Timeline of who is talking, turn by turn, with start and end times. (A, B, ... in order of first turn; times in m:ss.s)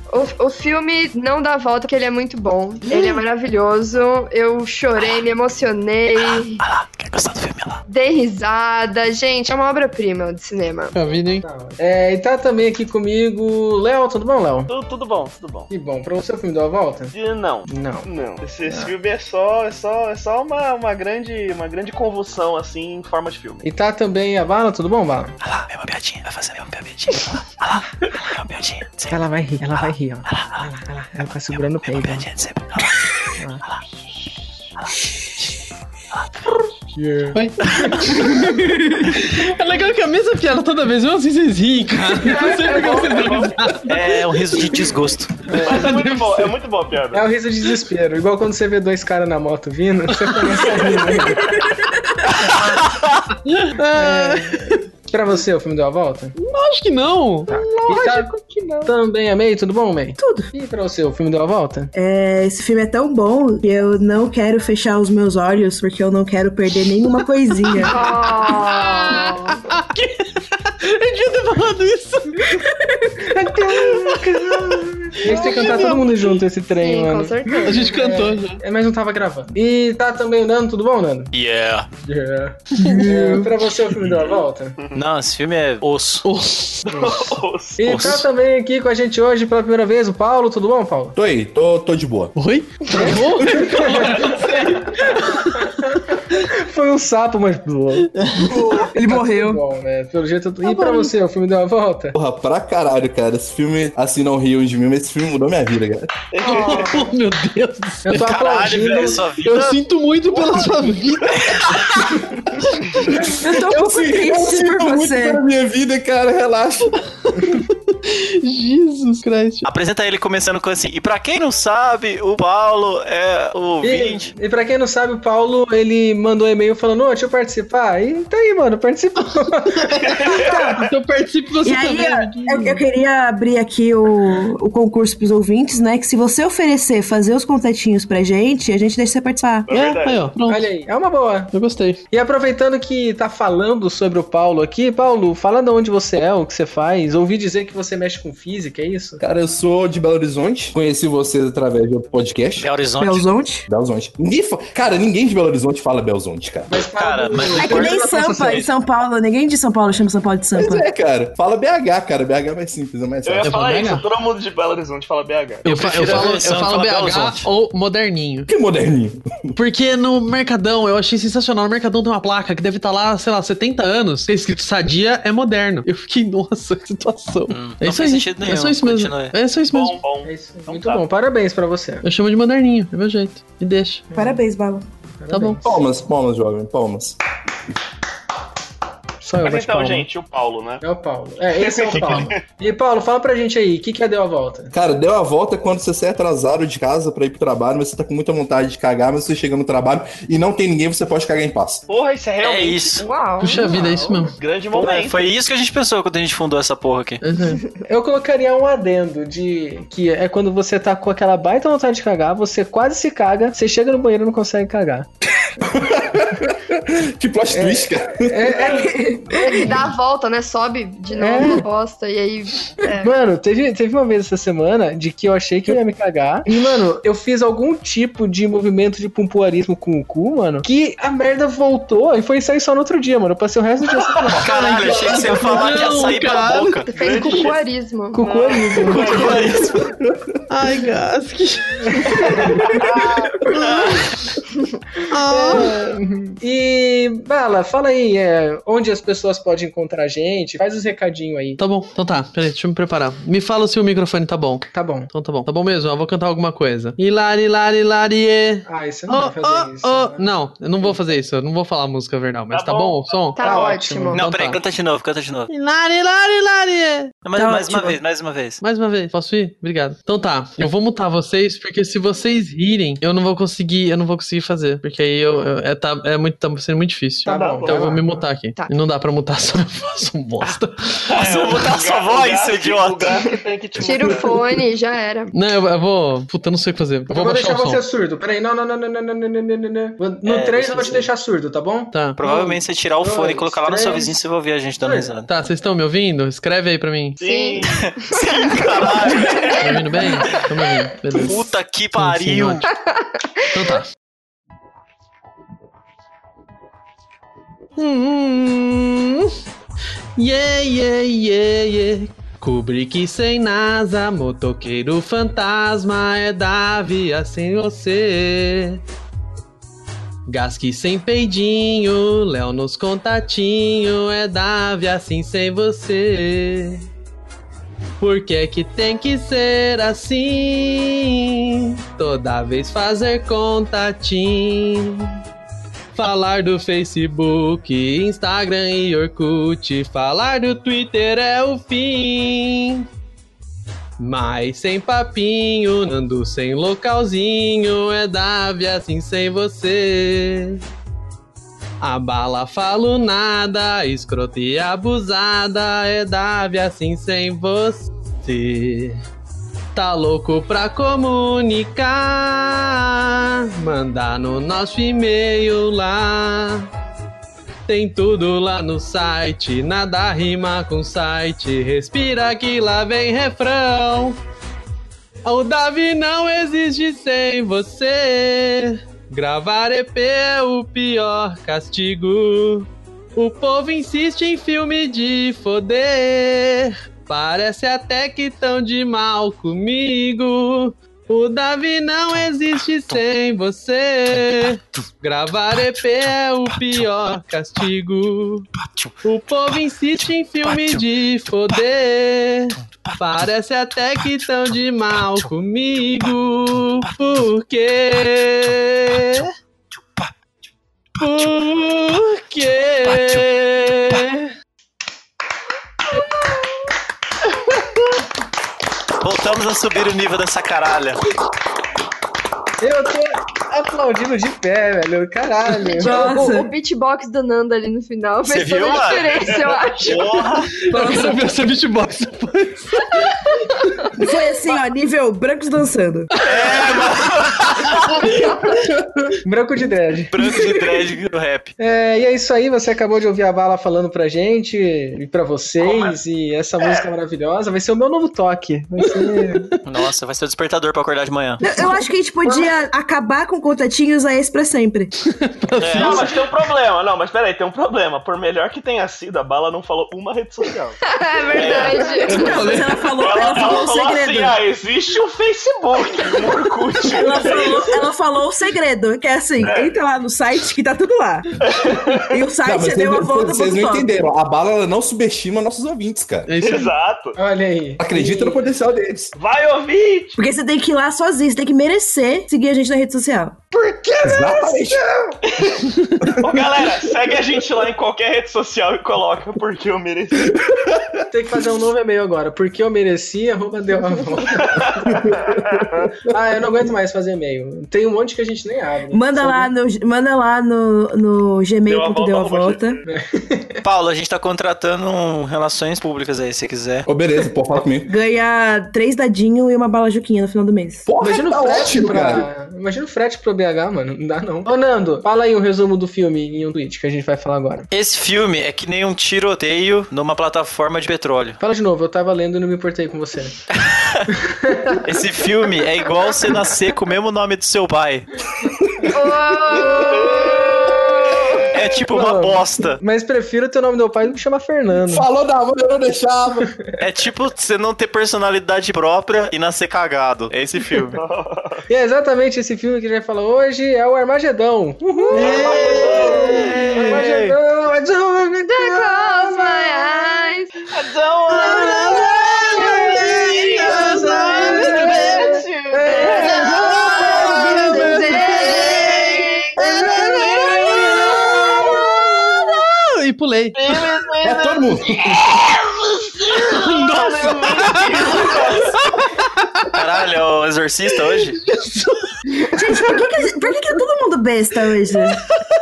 0:00.1-0:06.6 A
0:02.9-0:03.2 B
0:06.2-0:07.8 C
0:07.9-0:11.0 A
0:10.9-0:11.4 D
0:11.4-0:14.7 E
0:14.7-0:15.7 F
0:15.7-0:17.1 E
0:17.1-0:23.6 F
0:17.7-0:18.1 E
0:18.6-0:18.9 E
0:23.6-0:25.4 E
0:25.4-0:29.1 C
0:29.1-0:32.3 E
0:30.3-0:30.6 C
0:31.9-0:33.7 C
0:36.9-0:38.4 E
0:37.3-0:43.8 D
0:42.2-0:43.6 F
0:43.8-0:45.4 C
0:45.5-0:46.0 E
0:45.6-0:46.5 D
0:45.6-0:47.2 F
0:47.1-0:51.6 E
0:50.2-0:51.1 D
0:52.6-0:53.1 C
0:53.4-0:54.8 D
0:53.9-0:56.3 E
0:56.4-0:58.9 D
0:57.5-0:58.3 E
0:58.8-1:01.9 E
1:00.2-1:00.5 B
1:01.9-1:08.1 B
1:07.7-1:16.4 D
1:07.8-1:09.6 A
1:13.2-1:21.3 E
1:16.8-1:18.2 A
1:17.6-1:18.6 D
1:21.3-1:21.9 C
1:22.0-1:24.8 E
1:22.8-1:23.5 D
1:24.9-1:26.3 C
1:26.2-1:26.9 D
1:26.8-1:28.2 F
1:26.9-1:31.1 E
1:27.8-1:28.2 C
1:31.1-1:32.3 G
1:32.4-1:35.8 D
1:32.9-1:34.5 E
1:35.4-1:42.2 E
1:38.2-1:38.8 D
1:38.9-1:39.6 B
1:40.6-1:41.1 D
1:42.1-1:46.1 G
1:46.3-1:47.0 F
1:46.4-1:47.1 A
1:46.4-1:48.3 D
1:48.0-1:49.2 E
1:48.2-1:49.8 C
1:49.4-1:51.8 D
1:51.3-1:52.1 C
1:52.7-1:53.1 D
1:53.1-1:57.0 G
1:53.4-1:55.4 B
1:57.2-1:59.7 D
1:59.6-2:04.3 C
2:03.8-2:10.7 E
2:09.6-2:12.8 D
2:10.1-2:10.6 F
2:11.6-2:19.7 B
2:19.7-2:20.3 F
2:19.7-2:20.7 D
2:20.5-2:21.5 E
2:21.5-2:22.0 D
2:22.1-2:29.2 E
2:29.2-2:32.7 G
2:32.6-2:33.3 C
2:33.0-2:33.7 B
2:33.7-2:36.7 G
2:36.7-2:38.7 E
2:36.9-2:38.6 C
2:37.5-2:40.9 B
2:40.5-2:43.7 G
2:43.2-2:45.7 F
2:43.4-2:44.0 D
2:45.6-2:48.5 D
2:45.7-2:47.5 C
2:48.5-2:49.5 G
2:49.6-3:00.0 D
2:57.5-2:59.4 C
2:59.7-3:01.0 F
3:00.2-3:02.0 E
3:02.0-3:04.0 D
3:04.1-3:04.4 E
3:04.1-3:04.9 B
3:05.1-3:05.8 E
3:05.3-3:05.6 D
3:05.6-3:07.2 G
3:09.2-3:10.1 E
3:09.4-3:10.8 F
3:10.8-3:14.7 E
3:11.5-3:12.4 F
3:14.7-3:21.8 G
3:21.9-3:23.1 F
3:22.4-3:23.0 C
3:23.0-3:24.2 A
3:23.4-3:24.3 D
3:24.3-3:25.3 F
3:24.7-3:27.2 C
3:27.2-3:27.6 D
3:27.9-3:35.1 E
3:35.6-3:38.6 G
3:37.5-3:39.9 E
3:38.7-3:39.8 B
3:39.5-3:43.2 A
3:41.1-3:41.6 E
3:43.0-3:56.0 E
3:54.4-3:56.9 C
3:54.7-3:56.8 D
3:56.8-3:58.3 A
3:56.9-3:57.6 F
3:58.1-3:59.7 E
3:58.2-3:59.7 F
3:58.8-3:59.9 C
4:00.5-4:02.5 D
4:01.9-4:02.8 E
4:02.8-4:03.1 F
4:03.5-4:04.0 C
4:05.1-4:05.8 D
4:05.3-4:11.6 E
4:11.6-4:23.4 D
4:14.7-4:15.1 E
4:18.6-4:20.3 E
4:22.5-4:23.8 F
4:23.4-4:24.2 A
4:23.4-4:24.2 E
4:24.1-4:25.5 C
4:24.1-4:24.6 D
4:25.5-4:27.2 D
4:27.2-4:28.6 C
4:27.4-4:28.0 B
4:28.6-4:41.2 D
4:37.2-4:38.2 E
4:37.2-4:38.0 F
4:41.1-4:44.4 F
4:41.1-4:43.1 C
4:43.8-4:45.3 A
4:45.3-4:47.8 D
4:47.1-4:54.2 E
4:50.2-4:51.1 C
4:51.9-4:52.2 D
4:52.2-4:55.3 C
4:54.8-4:55.2 E
4:55.3-4:57.2 D
4:57.2-4:59.5 F
4:57.2-4:58.1 A
4:57.8-5:00.5 C
4:59.6-5:01.4 D
5:01.1-5:02.7 C
5:01.9-5:02.6 D
5:02.7-5:03.4 A
5:03.5-5:03.9 D
5:07.8-5:09.3 D
5:10.2-5:18.8 D
5:20.3-5:26.8 D
5:28.0-5:35.1 D
5:35.9-5:42.8 D
5:44.0-5:50.6 D
5:51.8-5:59.0 D
5:59.7-6:06.7 D
6:07.7-6:14.2 D
6:15.2-6:38.5 D
6:38.7-6:38.9 C
6:39.0-6:49.3 D
6:40.0-6:40.8 C
6:51.0-6:54.3 D
6:51.0-6:51.3 C
6:52.9-6:53.2 C
6:59.0-7:01.0 C
7:02.6-7:06.1 E
7:05.8-7:06.5 B
7:05.8-7:10.2 A
7:08.2-7:09.2 C
7:09.2-7:10.3 F
7:09.8-7:10.6 C
7:10.6-7:13.2 D
7:10.6-7:11.2 B
7:14.0-7:16.1 B
7:16.2-7:18.1 C
7:17.5-7:18.1 D
7:19.2-7:20.4 E
7:20.1-7:21.5 C
7:21.6-7:29.6 E
7:25.6-7:26.0 F
7:26.6-7:26.9 F
7:29.6-7:31.4 C
7:31.4-7:34.9 B
7:35.0-7:36.1 D
7:35.6-7:36.1 C
7:35.7-7:40.8 F
7:40.8-7:42.6 A
7:41.3-7:41.9 C
7:41.4-7:44.4 B
7:42.1-7:42.6 D
7:43.0-7:47.8 F
7:46.9-7:51.3 B
7:49.4-7:49.8 F
7:51.4-7:52.2 F
7:52.1-7:54.0 B
7:52.4-7:56.3 G
7:56.2-7:56.7 D
7:56.4-7:57.2 F
7:57.2-7:58.4 E
7:57.8-7:59.1 G
7:59.2-8:00.2 F
8:00.2-8:03.4 B
8:04.0-8:04.8 G
8:05.2-8:10.5 F
8:05.6-8:06.1 D
8:06.0-8:06.3 G
8:10.3-8:11.0 G
8:11.1-8:15.0 E
8:14.8-8:16.1 G
8:16.1-8:19.5 E
8:18.9-8:22.8 B
8:21.7-8:22.8 F
8:22.9-8:23.6 E
8:23.6-8:26.9 C
8:26.9-8:27.9 G
8:27.8-8:30.9 B
8:30.8-8:32.3 G
8:31.0-8:37.7 E
8:37.7-8:41.4 C
8:41.4-8:43.4 E
8:43.6-8:44.0 C
8:44.1-8:44.8 E
8:44.8-8:48.0 C
8:48.4-8:48.9 G
8:48.9-8:51.4 A
8:49.6-8:55.0 E
8:49.8-8:50.2 F
8:51.5-8:52.8 C
8:54.8-8:56.5 G
8:56.8-9:01.0 C
9:00.9-9:01.6 F
9:01.7-9:10.2 E
9:05.1-9:06.5 F
9:05.1-9:06.9 D
9:06.2-9:07.4 C
9:08.4-9:10.5 A
9:10.7-9:16.6 F
9:11.3-9:15.4 D
9:12.4-9:17.9 E
9:15.9-9:19.5 A
9:16.1-9:23.6 D
9:17.0-9:17.3 G
9:17.9-9:18.2 B
9:18.4-9:21.4 F
9:19.7-9:20.3 G
9:23.6-9:28.8 F
9:24.2-9:25.4 G
9:26.5-9:29.7 D
9:29.7-9:31.4 C
9:31.1-9:32.3 D
9:32.5-9:35.2 B